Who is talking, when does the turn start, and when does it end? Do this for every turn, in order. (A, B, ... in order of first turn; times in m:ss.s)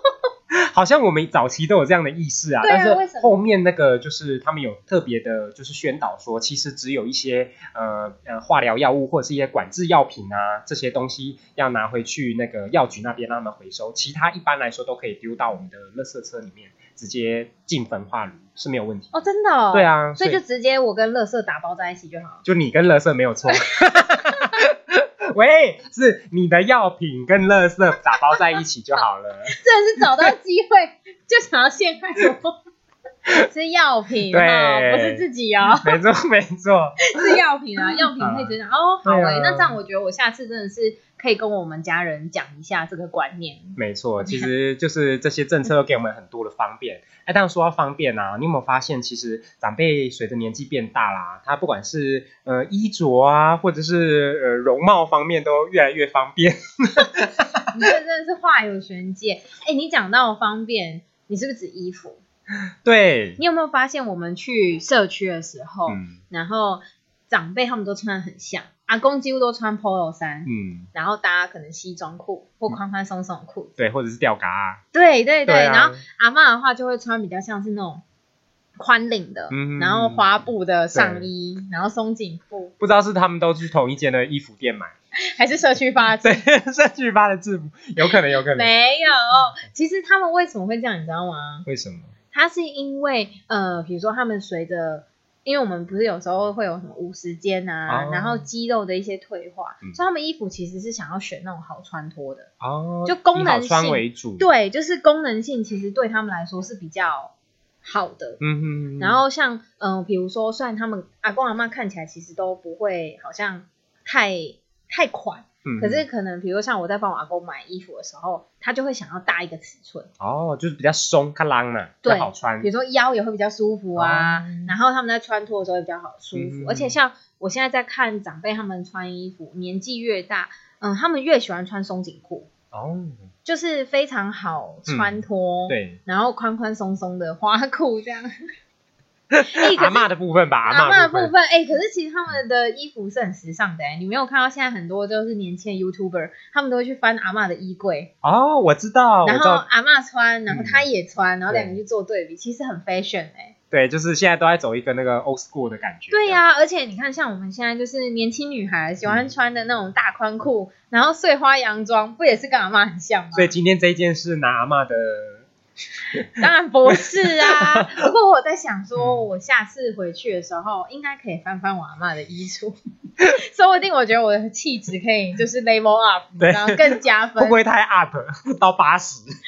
0:00.5-0:19.1 A
0:02.6-0:03.4 B
0:19.1-0:22.4 B
0:19.7-0:20.4 A
0:22.4-0:29.5 A
0:23.5-0:24.5 B
0:29.5-0:32.6 B
0:33.4-0:36.0 B
0:34.3-0:35.2 A
0:35.8-0:37.4 A
0:37.0-0:44.5 B
0:38.2-0:38.5 A
0:39.0-0:39.8 A
0:43.8-0:57.6 A
0:57.7-1:02.2 B
1:02.8-1:03.4 A
1:03.4-1:13.7 B
1:05.9-1:06.2 A
1:10.4-1:10.9 A
1:13.8-1:14.8 A
1:14.9-1:18.0 B
1:15.4-1:16.0 A
1:18.8-1:22.7 B
1:19.5-1:20.2 A
1:20.9-1:21.3 A
1:22.8-1:24.9 A
1:25.3-1:26.4 B
1:26.2-1:28.7 A
1:28.0-1:31.6 B
1:31.6-1:32.1 A
1:32.3-1:42.5 B
1:37.9-1:38.4 A
1:42.6-1:44.4 A
1:43.0-1:48.4 B
1:48.4-1:49.2 A
1:49.0-2:00.1 B
1:55.6-1:56.0 A
2:00.2-2:02.7 A
2:02.0-2:12.5 B
2:04.0-2:04.7 A
2:06.3-2:06.9 A
2:12.7-2:13.2 A
2:13.4-2:18.3 B
2:14.9-2:16.0 A
2:19.3-2:21.3 A
2:19.4-2:20.1 B
2:20.7-2:28.1 B
2:28.2-2:29.6 A
2:29.2-2:33.5 B
2:30.5-2:30.8 A
2:33.7-2:36.4 A
2:36.1-2:43.5 B
2:43.3-2:45.5 A
2:46.4-2:57.6 B
2:46.9-2:48.0 A
2:49.0-2:49.2 A
2:56.4-2:59.3 A